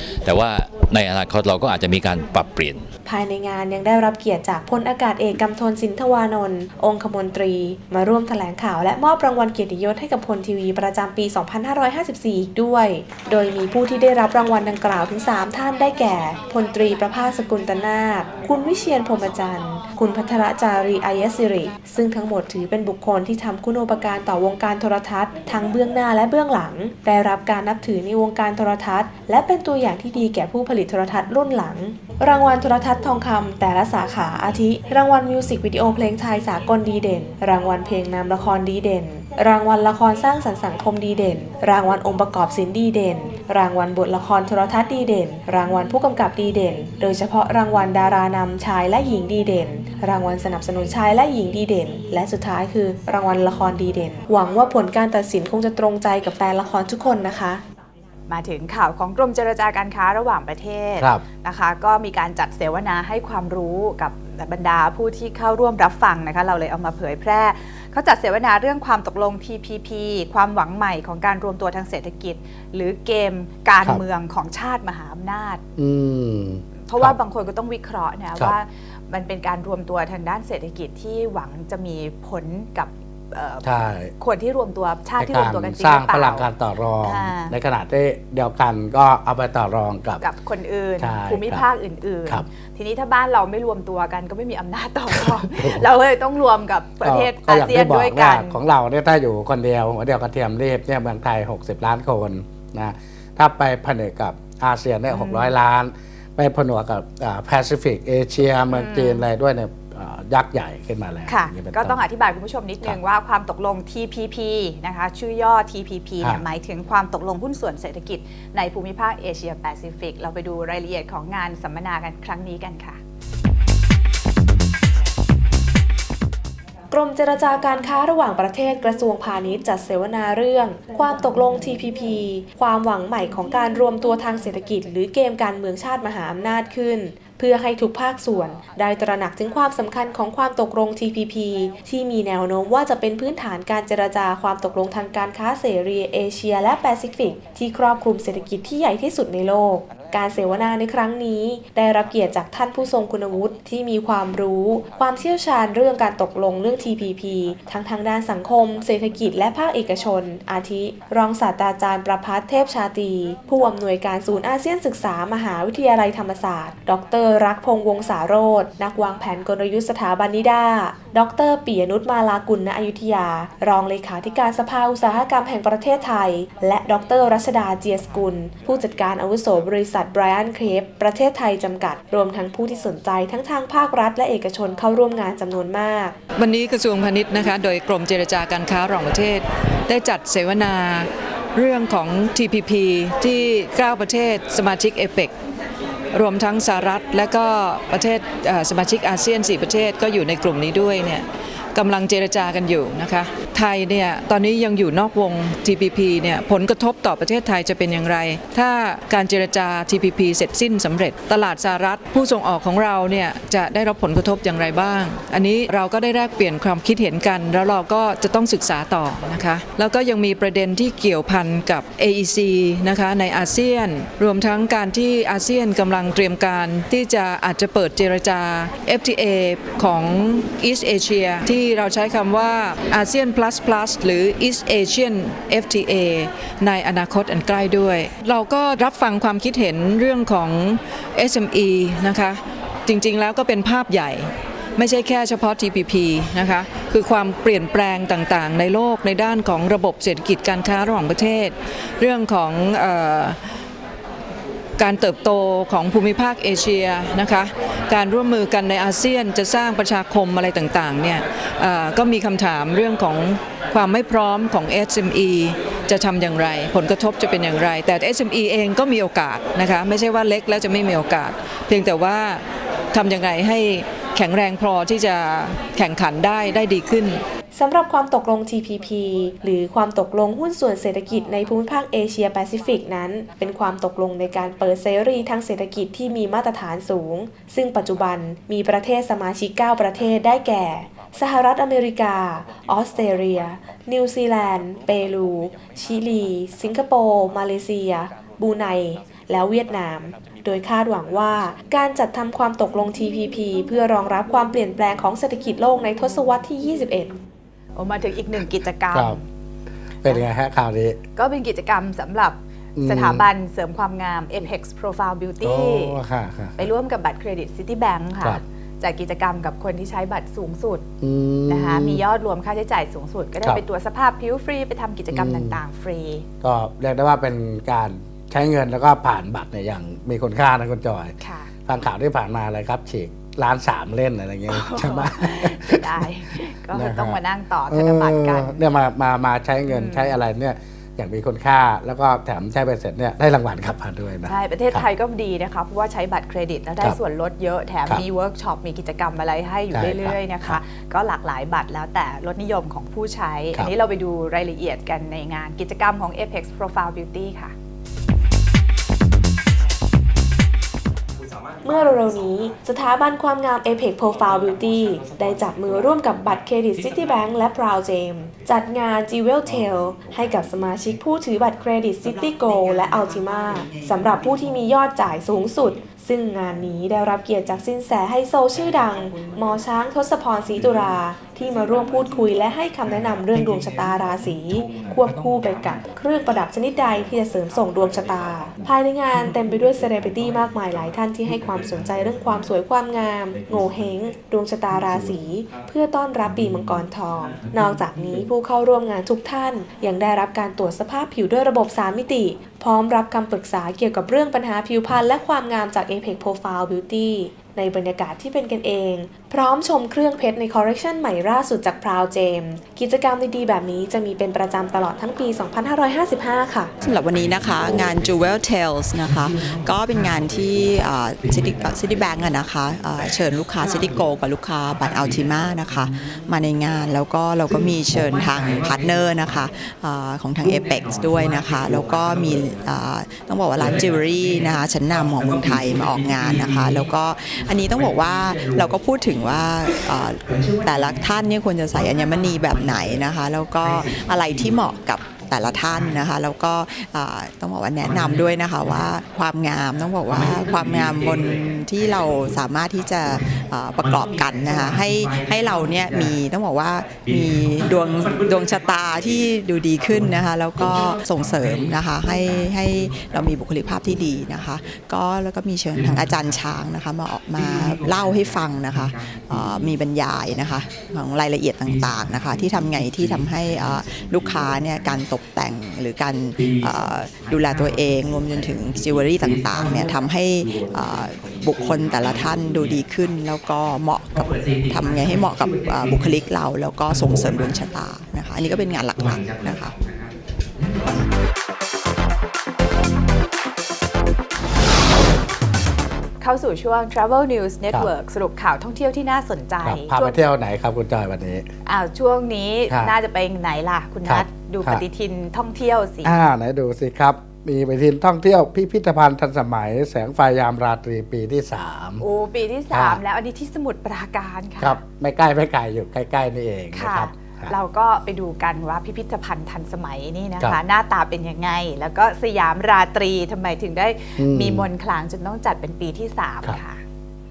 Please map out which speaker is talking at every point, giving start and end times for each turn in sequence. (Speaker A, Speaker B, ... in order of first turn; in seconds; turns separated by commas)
Speaker A: 0.2-2.9, Speaker B: 3.1-57.6, Speaker C: 58.3-75.6, Speaker D: 75.8-77.2, Speaker C: 76.8-83.7, Speaker D: 83.6-84.1, Speaker C: 84.2-86.5, Speaker D: 85.2-90.2, Speaker C: 87.0-87.5, Speaker C: 90.2-98.6, Speaker D: 91.0-91.6, Speaker D: 95.1-95.9, Speaker D: 97.0-112.0, Speaker C: 105.1-105.5, Speaker C: 108.7-109.2, Speaker C: 111.3-123.0, Speaker B: 126.9-186.2, Speaker E: 186.4-195.3, Speaker E: 196.1-253.4, Speaker E: 254.8-277.2, Speaker B: 277.5-307.2, Speaker C: 307.8-309.2, Speaker D: 308.9-309.2, Speaker D: 310.0-311.0, Speaker C: 311.2-316.0, Speaker D: 312.8-313.3, Speaker D: 315.4-316.6, Speaker C: 316.6-320.9, Speaker D: 321.0-322.0, Speaker C: 321.5-326.3, Speaker D: 325.1-325.6, Speaker D: 326.4-331.1, Speaker C: 331.2-331.5, Speaker D: 331.7-336.1, Speaker C: 334.5-338.6, Speaker D: 336.7-337.2, Speaker D: 337.7-344.8, Speaker C: 339.7-340.2, Speaker C: 344.3-357.5, Speaker D: 349.7-350.6, Speaker B: 361.6-416.7, Speaker F: 416.8-489.7, Speaker C: 496.2-500.2, Speaker D: 499.6-501.5, Speaker C: 501.7-506.1, Speaker D: 504.1-504.8, Speaker D: 506.0-512.0, Speaker C: 512.0-514.8, Speaker D: 512.7-513.0, Speaker D: 514.6-517.5, Speaker C: 516.7-526.8, Speaker D: 524.2-524.7